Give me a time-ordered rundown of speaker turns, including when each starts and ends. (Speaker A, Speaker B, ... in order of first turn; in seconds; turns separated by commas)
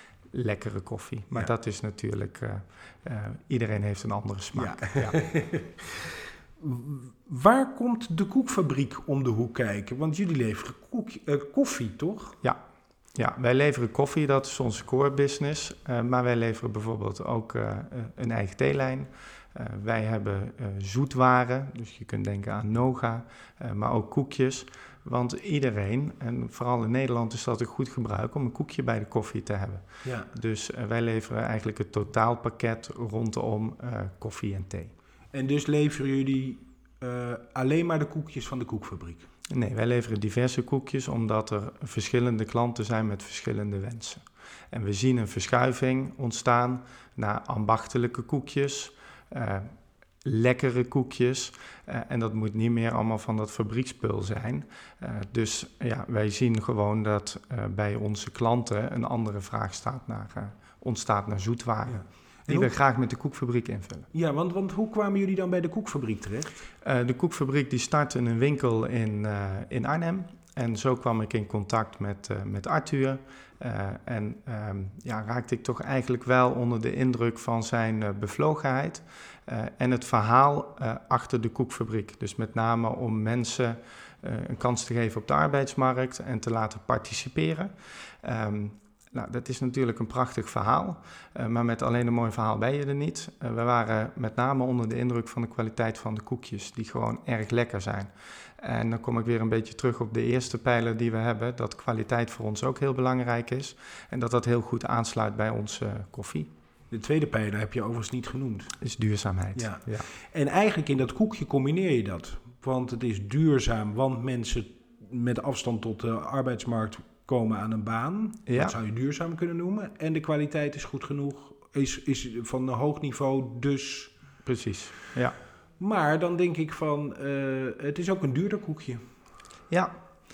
Speaker A: 0.3-5.2, Speaker B: 4.5-5.8, Speaker B: 6.6-12.4, Speaker A: 13.1-34.9, Speaker B: 30.0-30.3, Speaker B: 35.3-39.2, Speaker A: 39.5-49.7, Speaker A: 50.2-64.1, Speaker B: 61.9-62.7, Speaker B: 64.1-66.7, Speaker A: 66.8-106.5, Speaker B: 106.9-108.8, Speaker A: 108.8-110.1, Speaker B: 109.5-124.1, Speaker A: 118.5-118.8, Speaker A: 124.4-125.3, Speaker B: 125.8-129.0